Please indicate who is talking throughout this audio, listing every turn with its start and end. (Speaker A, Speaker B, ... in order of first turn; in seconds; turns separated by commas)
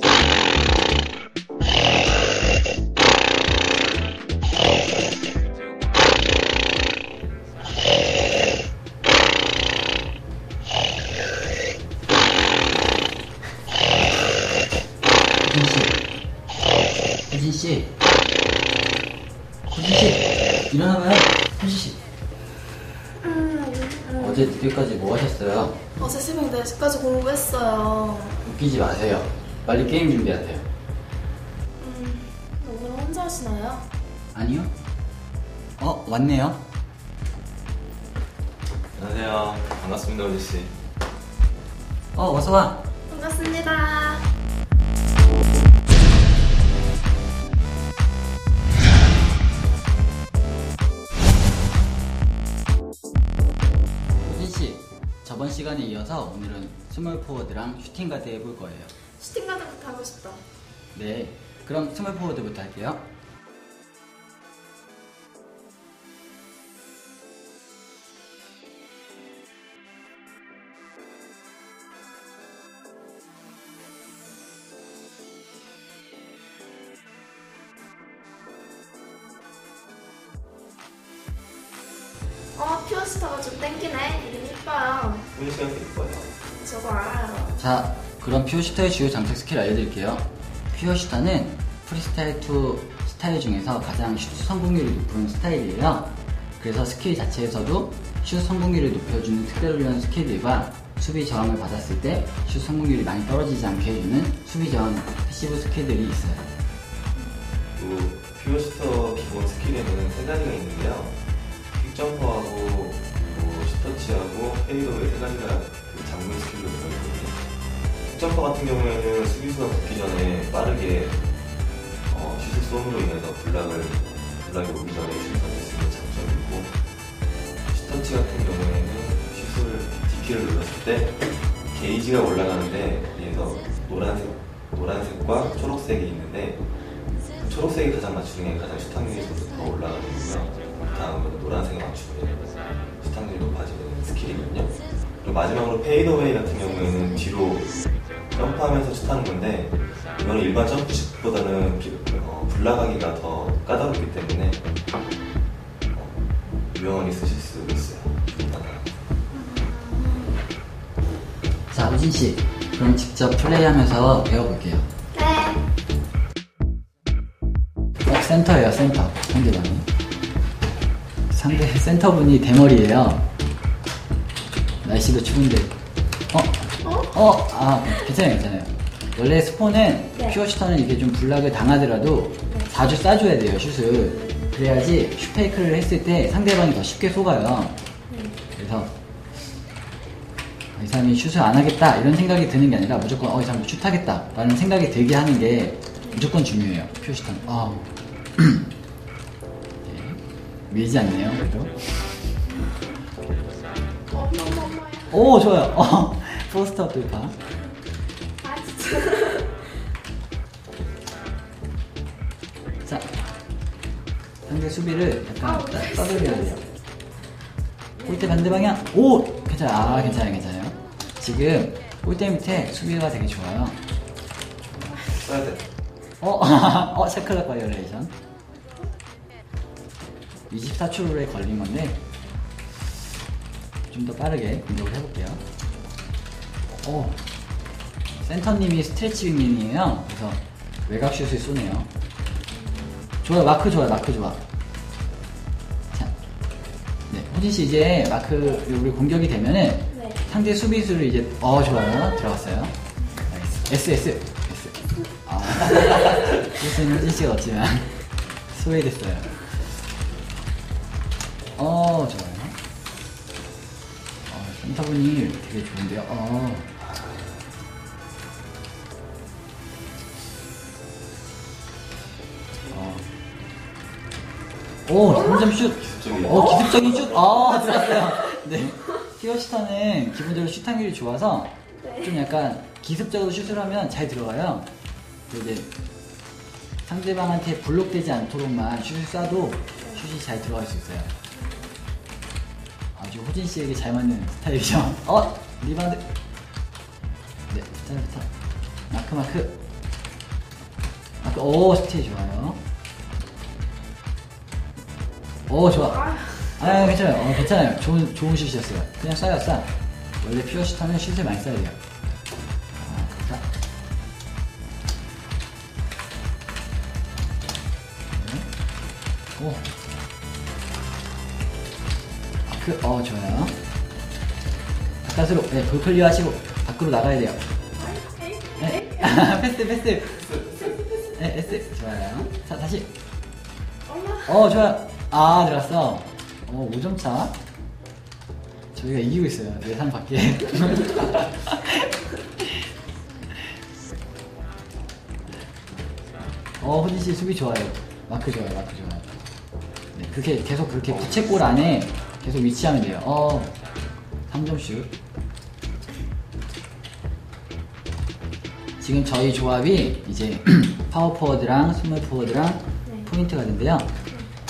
Speaker A: 15.4-16.0, Speaker A: 17.3-17.9, Speaker A: 19.7-22.0, Speaker B: 23.2-24.5, Speaker A: 24.2-25.8, Speaker B: 26.0-28.4, Speaker A: 28.4-30.6, Speaker B: 31.8-33.9, Speaker A: 34.3-34.7, Speaker A: 35.8-36.6, Speaker C: 38.9-40.7, Speaker A: 42.1-42.8, Speaker B: 43.1-44.2, Speaker A: 54.2-58.9, Speaker B: 59.1-60.4, Speaker A: 60.9-63.0, Speaker B: 82.5-85.3, Speaker C: 85.3-86.3, Speaker B: 86.5-87.6, Speaker A: 87.6-106.4, Speaker C: 107.8-111.2, Speaker C: 111.7-117.4, Speaker C: 118.1-121.2, Speaker C: 122.1-126.7, Speaker C: 127.7-131.2, Speaker C: 131.7-136.6, Speaker C: 137.4-147.7, Speaker C: 148.3-154.6, Speaker C: 156.7-158.9, Speaker B: 159.3-160.4, Speaker A: 161.7-164.9, Speaker B: 165.1-165.6, Speaker A: 168.0-169.9, Speaker A: 171.3-173.2, Speaker A: 174.8-175.7, Speaker A: 176.3-187.7, Speaker B: 176.8-177.2, Speaker B: 182.5-182.7, Speaker B: 184.0-184.6, Speaker B: 188.1-188.4, Speaker A: 188.6-188.9, Speaker A: 190.8-198.7, Speaker B: 196.0-196.3, Speaker A: 199.8-200.2, Speaker A: 200.7-202.0, Speaker B: 204.1-205.2, Speaker A: 205.1-207.3, Speaker B: 208.4-209.7, Speaker A: 214.4-216.6, Speaker B: 215.4-216.6, Speaker B: 218.0-218.7, Speaker A: 218.0-223.8, Speaker B: 219.8-220.3, Speaker B: 224.8-225.1, Speaker C: 225.1-225.6, Speaker A: 226.2-228.1, Speaker A: 230.5-232.0, Speaker A: 233.9-235.4, Speaker A: 236.7-237.2, Speaker A: 238.2-241.9, Speaker A: 243.2-244.4, Speaker A: 247.1-252.7, Speaker B: 249.9-250.2, Speaker A: 253.3-257.9, Speaker A: 258.5-259.4, Speaker A: 261.6-262.6, Speaker A: 264.3-266.7, Speaker C: 266.8-267.3, Speaker A: 272.7-273.0, Speaker A: 274.9-284.7, Speaker B: 275.1-275.6, Speaker C: 275.7-277.6, Speaker B: 276.2-276.8, Speaker B: 277.7-278.2, Speaker B: 281.8-282.1, Speaker A: 285.3-285.7, Speaker A: 286.8-291.1, Speaker B: 291.3-291.7, Speaker A: 292.9-296.0, Speaker A: 297.5-298.3, Speaker A: 298.9-299.5, Speaker A: 301.2-302.6, Speaker A: 305.5-309.7, Speaker B: 305.8-306.6, Speaker C: 306.6-307.0, Speaker A: 310.2-311.8, Speaker A: 312.8-313.4, Speaker A: 318.1-318.4, Speaker A: 319.4-319.6, Speaker A: 322.4-323.5, Speaker A: 325.0-327.4, Speaker B: 327.8-329.2, Speaker A: 328.6-330.4, Speaker C: 330.2-330.6, Speaker B: 330.6-331.1, Speaker A: 331.1-332.9, Speaker B: 333.9-334.5, Speaker A: 334.2-337.3, Speaker A: 338.7-341.9, Speaker A: 346.6-349.2, Speaker A: 349.9-353.5, Speaker C: 350.9-351.2, Speaker A: 354.3-354.9, Speaker A: 358.8-363.9